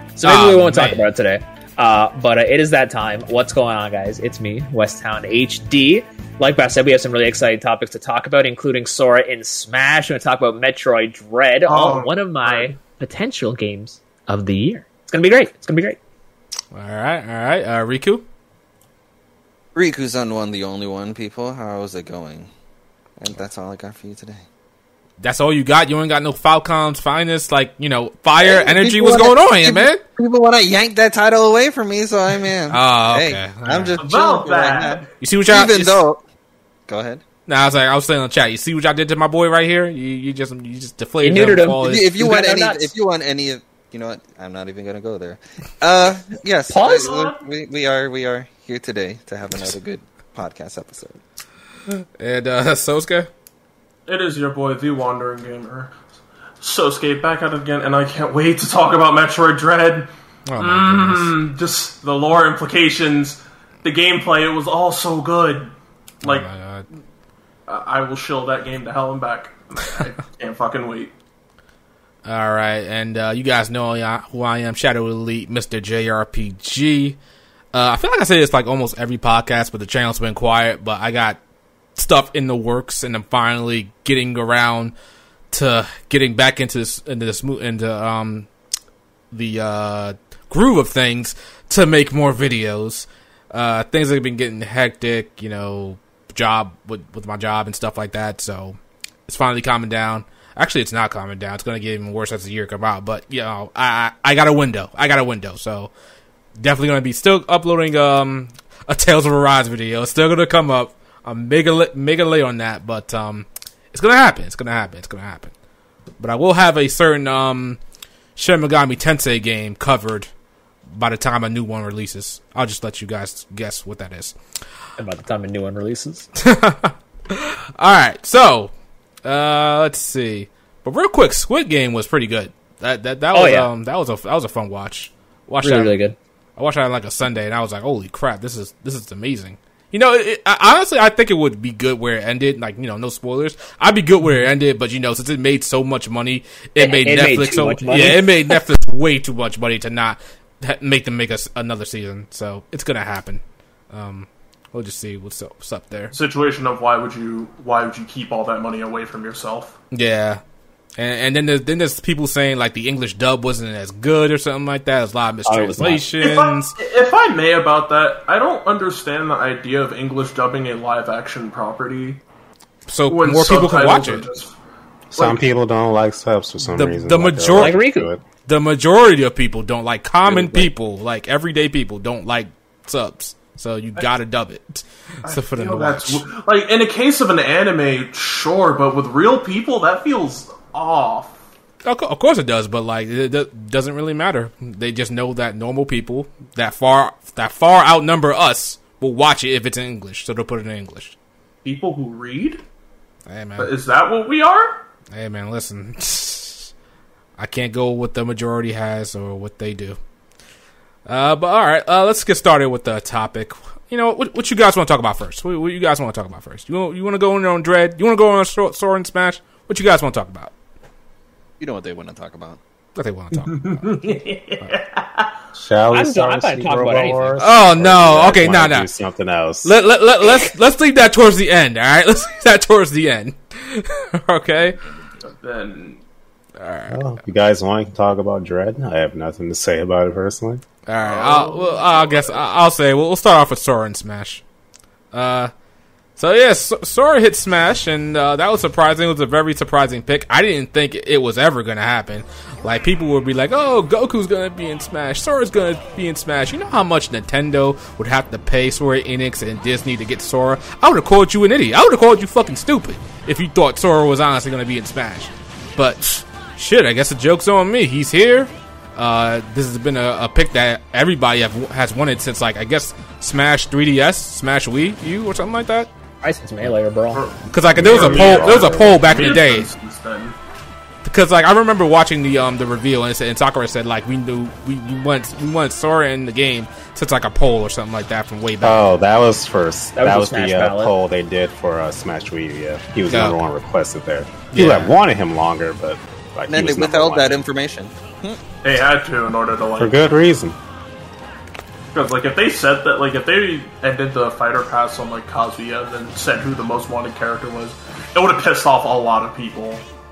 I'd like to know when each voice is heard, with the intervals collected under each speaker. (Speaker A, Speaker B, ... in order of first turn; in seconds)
Speaker A: 0.2-16.0, 41.2-42.9, 46.7-47.2, 125.0-126.3, 133.3-133.7, 135.6-136.2, 146.8-148.3, 165.4-166.0, 177.5-178.1, 225.9-227.3, 276.2-277.2, 289.9-290.9
Speaker B: 0.2-1.1, 16.7-18.2, 25.2-30.0, 32.7-34.0, 35.2-36.0, 37.5-42.1, 52.2-53.3, 60.5-61.4, 66.2-66.8, 72.2-77.2, 77.7-81.4, 82.0-84.9, 85.5-88.5, 89.3-105.9, 106.6-115.5, 116.2-117.8, 118.3-120.3, 120.9-124.4, 126.4-128.7, 129.2-136.0, 136.6-156.1, 159.9-160.4, 161.0-166.7, 172.9-174.3, 176.6-177.8, 178.4-186.2, 191.8-201.2, 203.3-203.7, 205.1-206.7, 207.4-210.0, 211.1-220.5, 222.9-224.0, 227.4-228.9, 229.6-234.8, 236.6-237.1, 240.8-244.4, 245.1-245.5, 246.2-275.9, 277.5-279.7, 281.0-288.9, 293.1-293.4, 294.5-294.9
Speaker C: 11.7-12.7, 34.0-35.1, 46.8-47.4, 54.1-56.0, 56.6-65.7, 66.2-66.5, 67.7-71.1, 156.1-159.8, 166.2-172.2, 173.1-174.6, 175.1-175.5, 185.2-191.4, 201.6-202.6, 203.6-204.8, 223.4-225.4, 235.2-236.0, 241.0-242.4, 277.1-280.4, 298.6-299.9, 301.9-309.8
Speaker D: 19.7-22.5, 23.2-24.4, 28.4-36.2, 36.9-37.2, 41.8-51.2, 221.6-222.6, 296.5-298.4
Speaker E: 175.2-178.2, 180.3-180.7, 225.5-229.7, 236.9-240.6, 277.7-279.3, 288.6-297.4, 299.8-300.6